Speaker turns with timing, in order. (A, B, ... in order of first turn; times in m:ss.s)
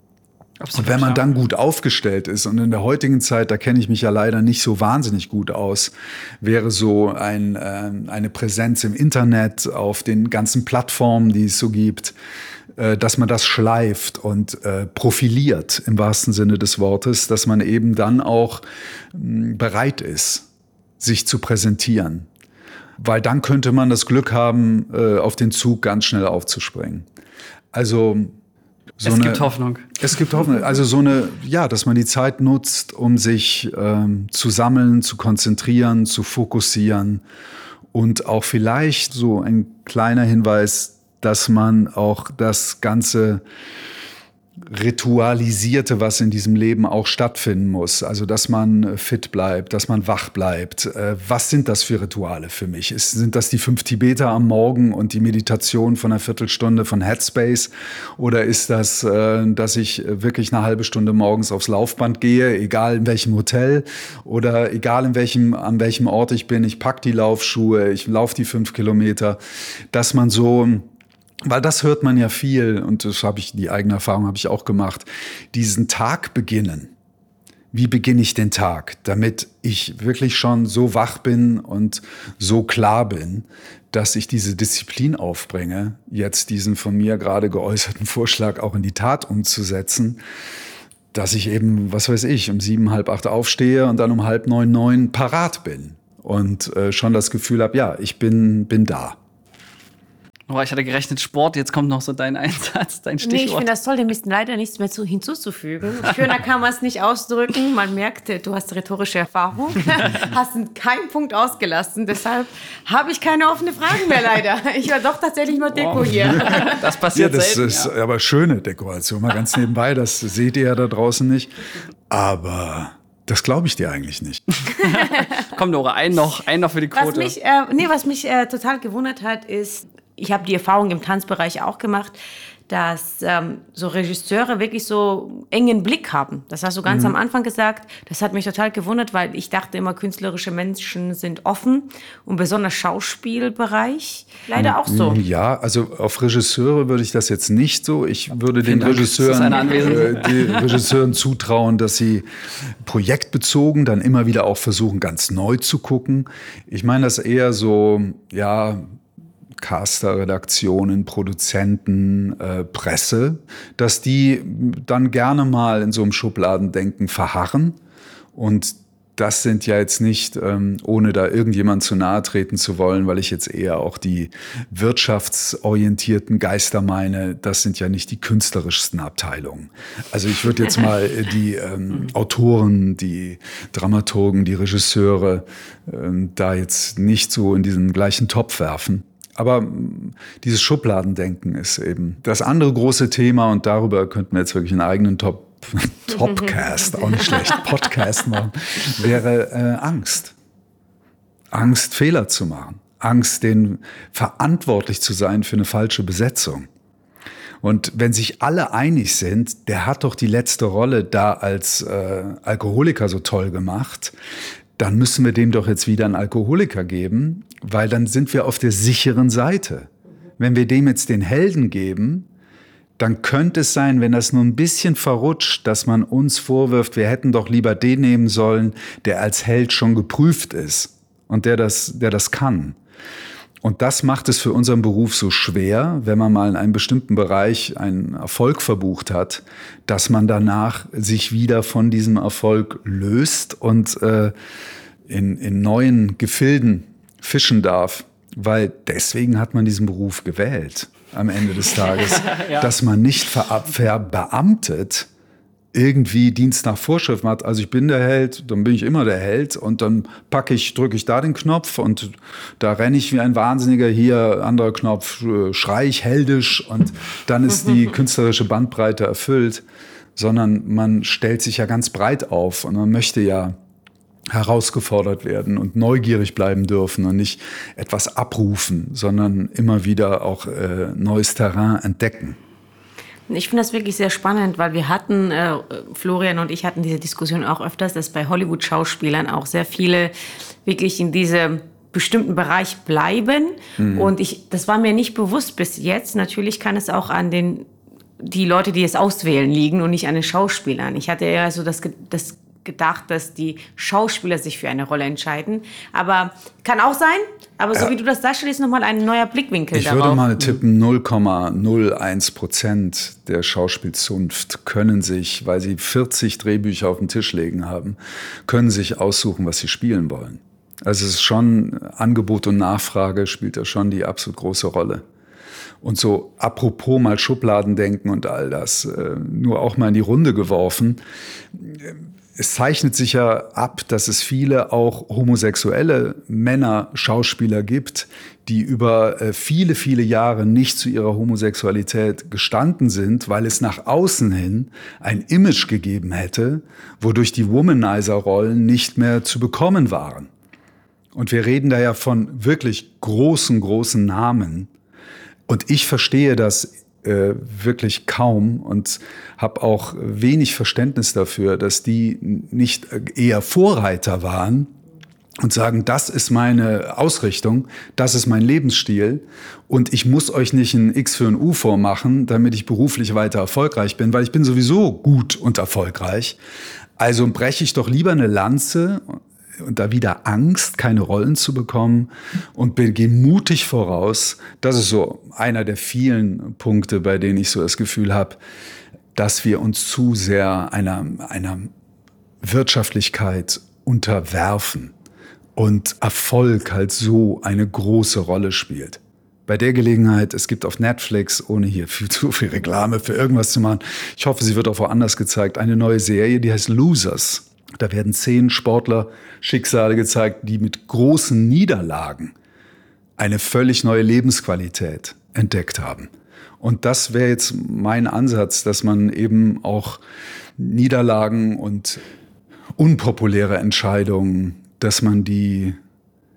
0:00.6-0:01.3 A
0:00.7-0:12.1 B
0:12.8-0:20.5 B
0:21.0-0:22.3 B
0:23.0-0:27.0 B
0:27.7-0:28.3 B
0:29.0-0:37.2 B
0:29.0-0:29.9 A
0:37.9-0:43.4 B
0:44.6-1:09.4 B
1:09.9-1:10.9 B
1:11.4-1:16.9 B
1:17.7-1:30.2 B
1:31.1-1:39.2 B
1:40.5-1:43.7 A
1:43.2-1:56.8 C
1:55.7-1:57.9 A
1:56.4-1:56.6 B
1:57.1-2:01.5 B
2:02.1-2:04.4 B
2:04.8-2:05.3 C
2:04.8-2:07.4 A
2:06.9-2:12.2 C
2:12.7-2:25.2 C
2:16.8-2:17.1 B
2:24.6-2:32.3 B
2:28.6-2:30.8 A
2:29.6-2:30.0 C
2:32.8-2:38.8 B
2:39.6-2:47.8 B
2:48.3-3:20.3 B
3:21.5-3:26.7 B
3:27.6-3:34.1 B
3:34.8-3:42.3 B
3:43.0-3:52.8 B
3:53.6-4:04.3 B
4:05.1-4:15.1 B
4:12.2-4:12.7 A
4:15.7-4:29.6 B
4:30.2-4:33.6 B
4:34.3-4:42.4 B
4:43.3-4:57.7 C
4:53.8-4:54.1 B
4:58.2-5:10.2 C
5:09.7-5:25.0 B
5:25.8-5:31.0 B
5:31.5-5:50.3 B
5:51.1-5:54.7 B
5:55.5-6:04.7 B
6:05.4-6:16.4 B
6:17.0-6:28.4 B
6:29.1-6:31.7 B
6:32.4-6:34.9 B
6:35.6-6:52.3 B
6:53.2-7:00.0 B
7:00.6-7:02.0 B
7:02.8-7:05.8 B